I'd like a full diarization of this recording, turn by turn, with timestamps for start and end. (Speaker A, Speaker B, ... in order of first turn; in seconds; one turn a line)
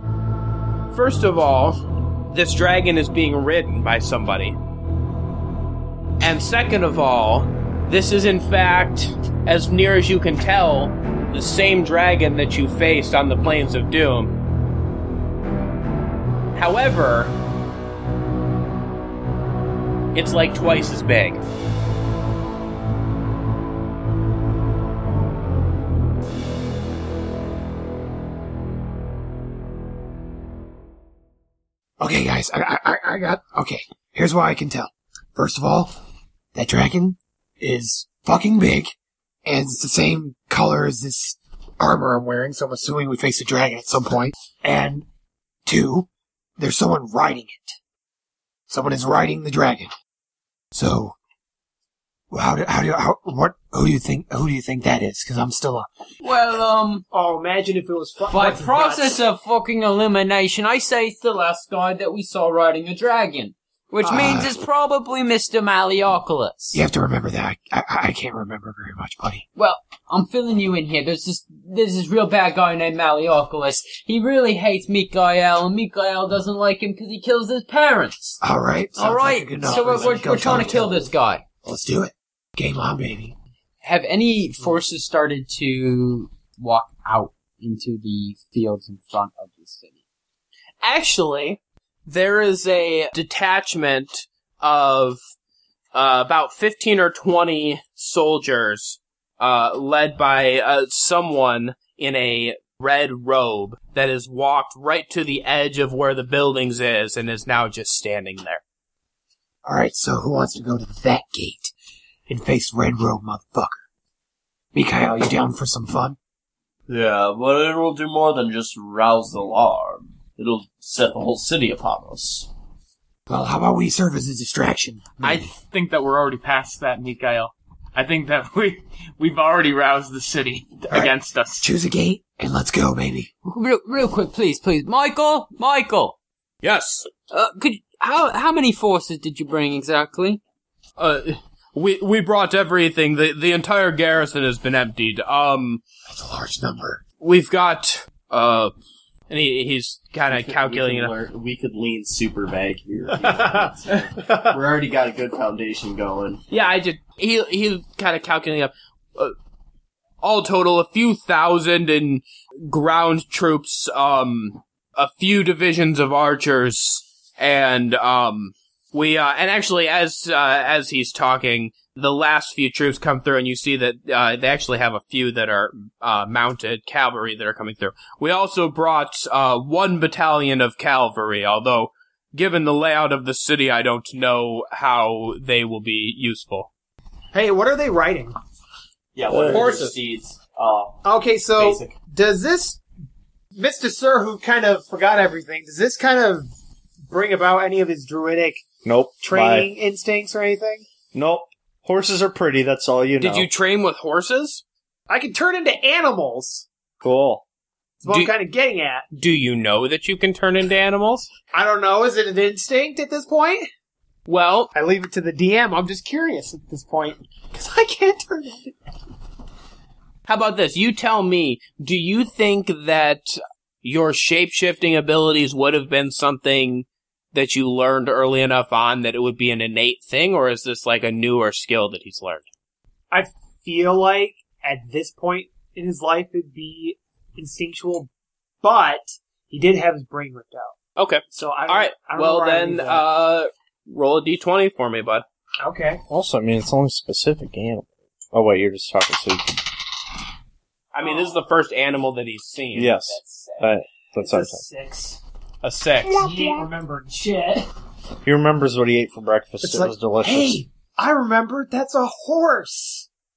Speaker A: 0.9-4.5
Speaker A: 6.2-14.3
Speaker A: 16.5-17.3
Speaker A: 20.1-21.4
Speaker B: 32.0-36.0
Speaker B: 36.5-38.9
Speaker B: 39.4-45.0
Speaker B: 45.6-47.8
Speaker B: 48.7-49.9
Speaker B: 50.7-51.1
Speaker B: 52.3-55.9
Speaker C: 56.2-57.0
Speaker D: 57.1-59.2
Speaker C: 58.3-66.8
Speaker B: 64.0-64.5
Speaker B: 66.7-69.4
Speaker C: 69.5-78.4
Speaker B: 78.4-81.1
Speaker C: 78.9-81.5
Speaker E: 79.7-80.6
Speaker B: 81.6-83.3
Speaker C: 83.8-89.9
Speaker A: 90.8-95.2
Speaker A: 95.9-108.6
Speaker B: 109.6-111.7
Speaker B: 112.3-113.8
Speaker B: 114.7-116.2
Speaker E: 116.9-122.5
Speaker B: 123.3-125.3
Speaker F: 125.2-131.7
Speaker B: 130.9-133.3
Speaker C: 133.4-136.2
Speaker A: 136.6-137.1
Speaker C: 137.3-140.4
Speaker A: 141.0-145.8
Speaker B: 146.1-147.0
Speaker A: 147.2-148.7
Speaker A: 149.3-151.1
Speaker E: 150.3-156.4
Speaker D: 153.2-154.6
Speaker A: 156.5-159.3
Speaker A: 160.2-186.7
Speaker D: 187.3-188.3
Speaker E: 189.1-191.0
Speaker G: 189.3-189.7
Speaker A: 189.5-189.9
Speaker D: 191.0-192.8
Speaker E: 191.6-191.9
Speaker D: 193.5-196.5
Speaker D: 197.1-198.6
Speaker G: 198.8-199.7
Speaker D: 199.2-200.8
Speaker G: 201.1-203.5
Speaker A: 203.2-204.6
Speaker D: 205.1-206.7
Speaker G: 207.0-207.4
Speaker D: 208.0-209.1
Speaker A: 208.1-208.3
Speaker A: 209.1-211.3
Speaker D: 211.5-213.7
Speaker A: 214.3-214.7
Speaker D: 214.7-218.7
Speaker A: 220.3-232.4
Speaker D: 233.1-238.1
Speaker D: 238.6-240.8
Speaker A: 241.0-245.2
Speaker D: 241.3-243.1
Speaker D: 245.6-246.0
Speaker G: 246.1-249.7
Speaker A: 250.9-253.2
Speaker D: 251.0-251.4
Speaker G: 252.7-254.6
Speaker D: 253.2-255.2
Speaker A: 255.6-256.2
Speaker D: 256.1-257.7
Speaker G: 256.1-256.6
Speaker G: 258.2-260.6
Speaker D: 259.6-259.9
Speaker B: 260.3-260.6
Speaker D: 260.9-263.1